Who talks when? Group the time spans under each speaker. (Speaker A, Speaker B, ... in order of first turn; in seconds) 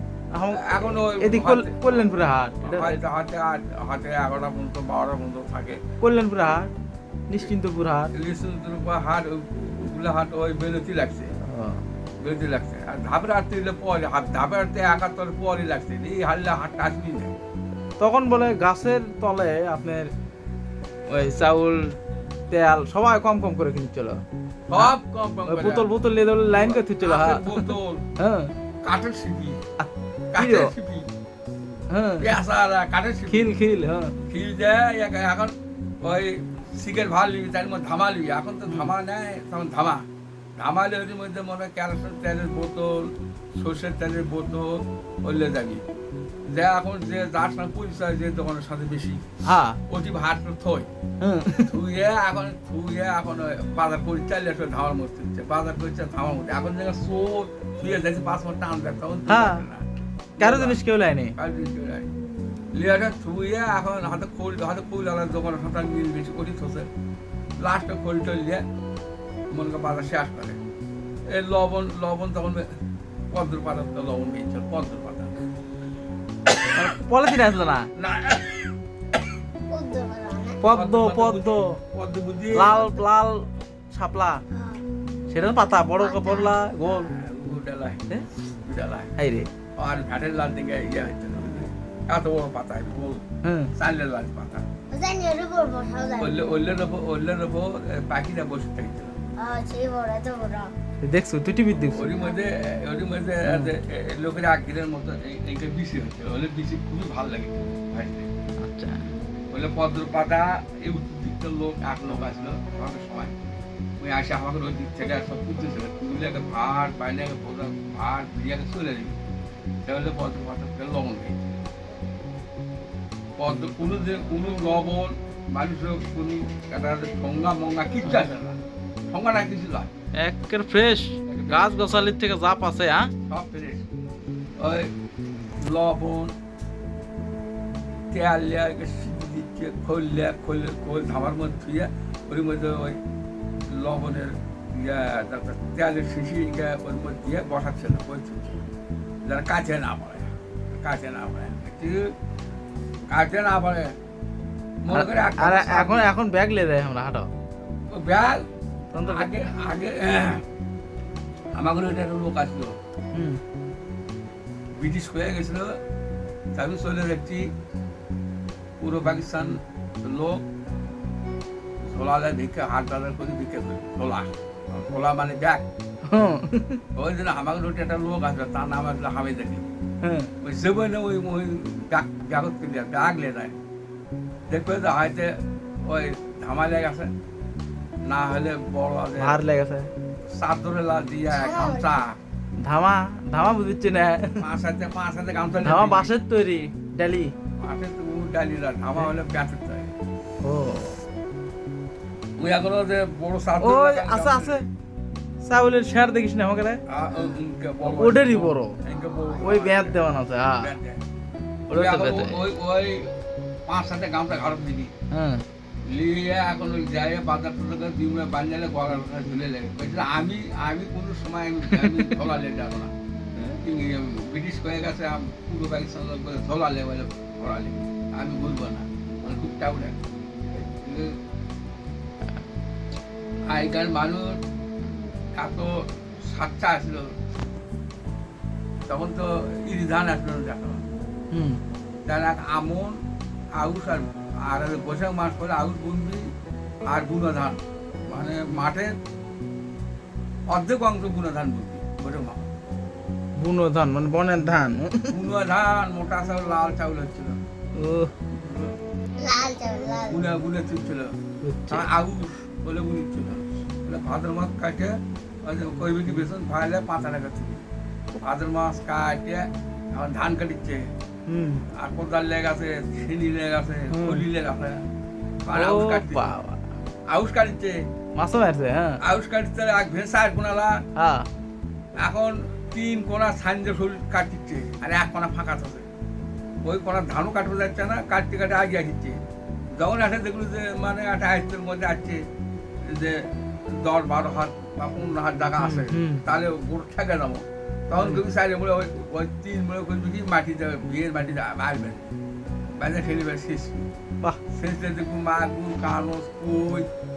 Speaker A: 0.3-3.0, 6.0-6.7, 7.3-8.1, 11.4-11.8, 18.0-20.1, 21.1-22.0, 22.5-24.2, 25.5-28.5, 29.8-30.7, 31.9-32.3, 33.3-34.1, 49.5-49.8, 51.2-51.7, 59.3-59.6, 60.4-61.4, 76.7-77.9, 80.6-81.8, 82.5-84.4, 85.3-87.1, 89.2-89.5, 93.4-93.7, 101.0-102.1, 103.5-103.7, 108.6-109.1, 130.2-133.1, 154.9-157.3, 158.9-159.3, 163.2-163.4, 176.1-176.8, 180.0-180.3, 189.2-189.9, 192.6-194.4, 195.6-197.3, 200.4-201.0, 203.6-204.7, 205.4-206.8, 207.8-208.8, 209.4-210.8, 211.7-212.4, 215.1-215.4, 221.7-222.2, 241.3-241.6, 253.4-255.2, 257.8-258.1, 261.4-261.9, 271.3-271.6, 273.9-274.2, 275.5-276.6, 278.2-279.0, 281.0-281.3, 295.6-296.2, 298.0-298.2
Speaker B: 0.5-5.8, 8.1-11.3, 12.2-17.4, 24.7-28.0, 28.8-29.6, 30.3-31.1, 32.2-33.5, 34.3-40.0, 40.6-45.8, 46.5-49.2, 49.9-50.9, 51.7-59.9, 60.4-60.8, 61.4-62.1, 62.7-66.9, 67.6-68.7, 69.5-70.6, 71.3-72.7, 73.3-75.3, 78.0-78.7, 80.7-83.0, 86.8-88.1, 88.7-89.2, 89.8-93.2, 93.8-94.7, 96.2-99.1, 101.9-108.3, 109.5-113.3, 114.0-119.2, 119.8-121.5, 123.4-128.6, 129.1-129.9, 131.3-131.9, 133.3-133.8, 134.6-134.9, 135.6-136.3, 138.1-143.0, 143.8-148.6, 149.3-152.1, 153.1-153.9, 154.8-156.2, 157.9-158.4, 159.0-160.4, 161.6-162.8, 164.8-165.7, 166.6-167.5, 168.8-170.4, 171.9-175.6, 176.9-179.7, 180.4-183.6, 184.5-187.1, 188.1-189.4, 190.3-192.2, 194.4-196.1, 197.6-199.9, 202.4-204.6, 206.9-210.0, 210.6-211.0, 211.7-213.2, 213.7-214.9, 215.9-222.9, 223.4-231.2, 233.5-234.4, 235.4-237.1, 238.9-240.8, 242.1-243.0, 243.6-246.3, 246.9-247.6, 248.1-248.9, 250.5-252.4, 255.1-257.4, 258.3-258.8, 260.1-261.1, 261.7-267.6, 268.2-270.9, 271.7-274.8, 275.4-276.3, 277.1-277.8, 279.0-280.8, 282.0-285.9, 286.6-289.2, 289.8-292.2, 292.9-302.0, 302.8-303.9, 304.5-306.9
Speaker C: 79.7-80.6, 84.5-84.8, 86.0-86.5, 94.9-96.3, 99.4-100.7, 191.3-192.0, 207.1-207.4, 208.9-209.6, 259.2-260.2